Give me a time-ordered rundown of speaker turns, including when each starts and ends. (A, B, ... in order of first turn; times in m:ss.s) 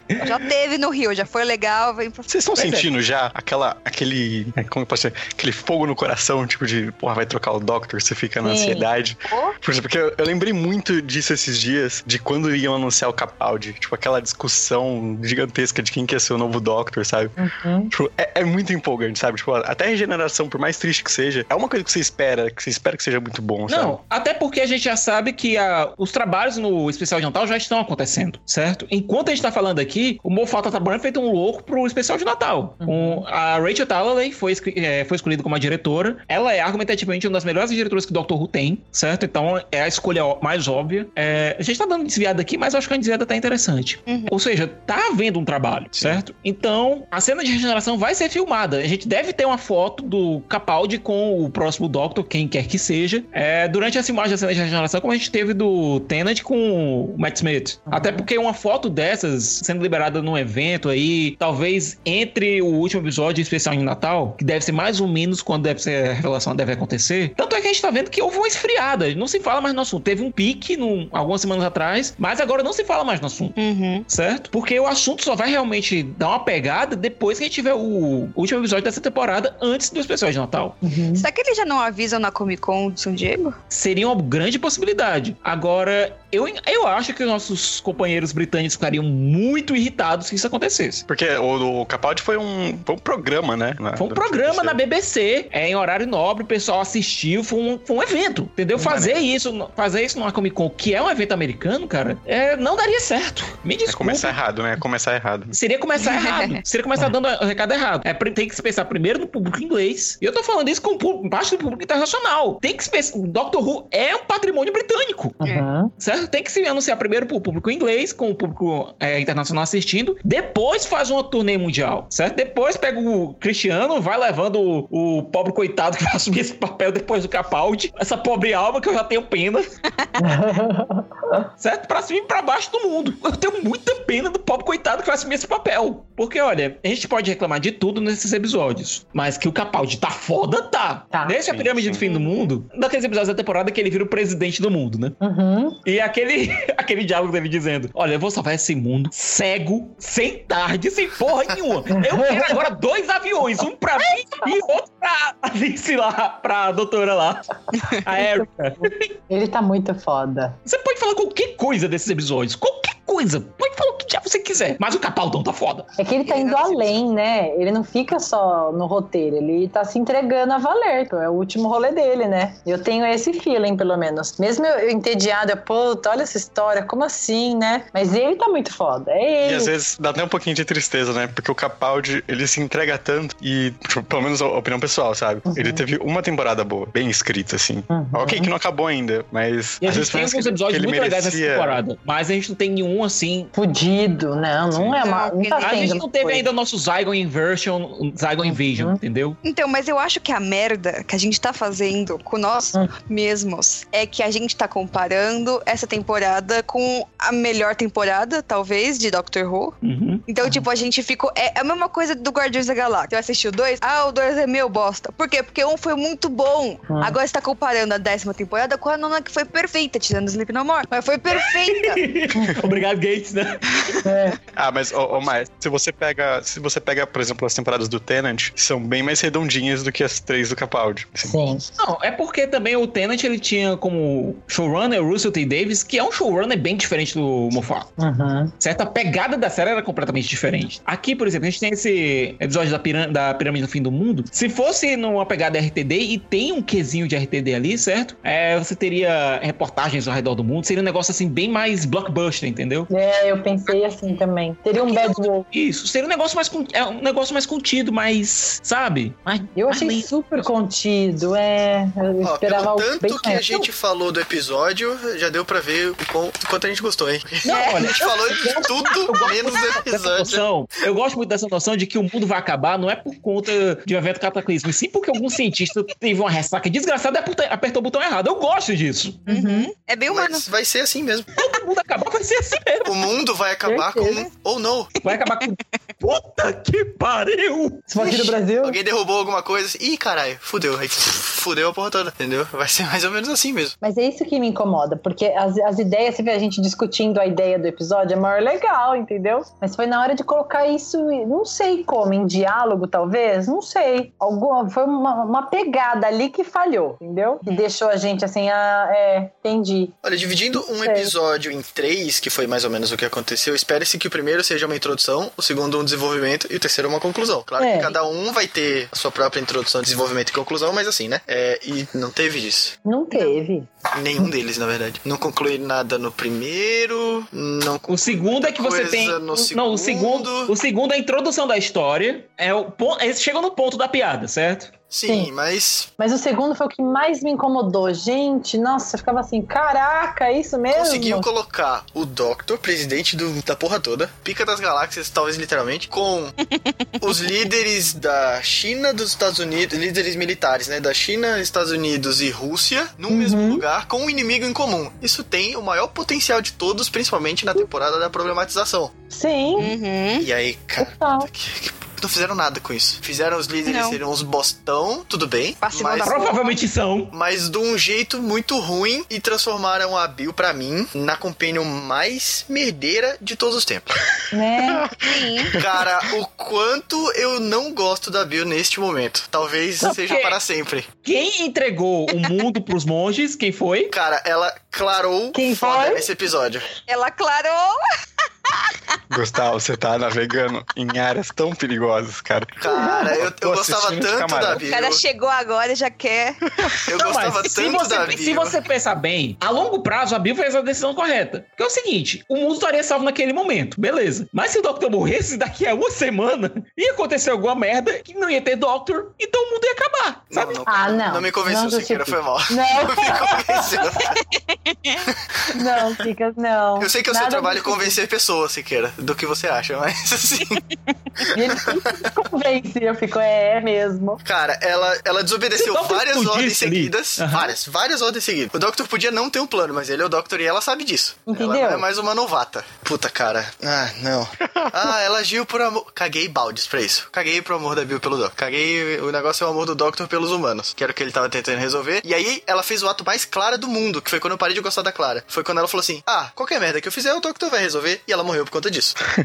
0:00.2-0:02.4 A
0:02.3-0:17.4 B
0:02.6-0:02.9 C
0:08.4-0:08.9 D
0:09.3-0:09.5 A
0:17.4-0:17.9 D
0:17.9-0:24.0 B
0:23.7-1:13.6 C
0:32.8-0:33.2 D
0:45.9-0:46.2 B
0:57.9-0:58.3 D
1:13.6-1:14.0 A
1:14.1-1:20.8 C
1:20.8-1:21.2 D
1:21.1-1:23.6 A
1:23.7-1:31.0 C
1:31.1-1:34.8 B
1:34.0-1:44.4 C
1:38.8-1:39.2 B
1:43.9-1:45.5 B
1:45.5-1:55.4 C
1:46.0-1:46.5 A
1:55.4-1:55.9 D
1:56.0-2:09.7 C
2:10.2-2:11.5 D
2:11.6-2:25.2 C
2:21.1-2:21.4 D
2:21.4-2:22.0 B
2:22.0-2:22.4 A
2:25.2-2:25.8 D
2:25.8-2:39.1 C
2:32.0-2:32.6 D
2:38.1-2:38.4 D
2:39.3-2:40.6 D
2:40.6-2:45.9 C
2:46.0-2:59.7 D
2:46.2-2:46.9 A
2:59.4-3:11.8 B
3:05.5-3:05.8 D
3:07.9-3:08.5 D
3:09.8-3:13.5 C
3:13.5-3:16.4 D
3:14.7-3:15.0 B
3:15.0-3:16.0 A
3:15.6-3:19.4 C
3:18.4-3:19.0 D
3:19.4-3:29.8 A
3:29.8-3:30.2 C
3:30.3-3:42.0 A
3:41.3-3:44.0 C
3:42.3-3:42.7 D
3:44.0-3:44.4 D
3:44.5-3:51.4 B
3:51.2-3:51.6 D
3:51.8-3:57.9 C
3:58.0-3:58.5 D
3:58.6-4:12.9 C
4:12.9-4:15.4 D
4:14.9-4:20.4 C
4:19.6-4:23.7 D
4:22.2-4:30.4 E
4:27.4-4:39.2 C
4:27.4-4:28.2 A
4:39.2-4:39.7 D
4:39.3-4:40.4 A
4:40.1-4:41.4 E
4:41.4-4:42.9 C
4:42.8-4:44.9 E
4:43.6-4:44.3 D
4:45.0-4:48.3 C
4:47.9-4:48.8 D
4:48.0-4:53.8 E
4:53.8-5:10.0 D
5:10.0-5:22.8 E
5:10.6-5:11.1 D
5:17.6-5:17.9 D
5:22.8-5:24.3 D
5:23.1-5:23.4 A
5:23.9-5:30.5 E
5:27.9-5:34.7 C
5:34.9-5:35.9 E
5:35.0-5:35.3 D
5:36.0-5:41.3 D
5:40.7-5:46.4 E
5:47.0-5:58.9 E
5:53.1-5:53.6 D
5:59.1-5:59.7 D
5:59.6-6:00.2 A
6:00.2-6:06.3 E
6:00.8-6:01.3 D
6:03.6-6:04.0 A
6:05.6-6:06.5 A
6:06.0-6:07.1 C
6:07.1-6:14.0 E
6:14.3-6:14.9 D
6:15.0-6:15.6 A
6:15.5-6:20.9 E
6:19.8-6:20.4 C
6:21.0-6:23.9 C
6:23.9-6:26.6 E
6:25.3-6:26.1 D
6:26.9-6:27.8 A
6:28.5-6:28.7 A
6:29.1-6:34.6 B
6:32.6-6:35.0 E
6:32.7-6:33.2 D
6:34.5-6:36.7 A
6:36.8-6:38.6 E
6:36.9-6:50.6 C
6:50.3-6:54.2 E
6:50.7-6:54.1 D
6:54.5-6:55.0 A
6:55.0-6:55.6 E
6:55.5-6:58.0 D
6:56.8-7:00.6 E
7:01.2-7:02.1 E
7:01.3-7:04.2 D
7:04.2-7:29.0 E
7:05.5-7:07.5 C
7:11.3-7:11.8 D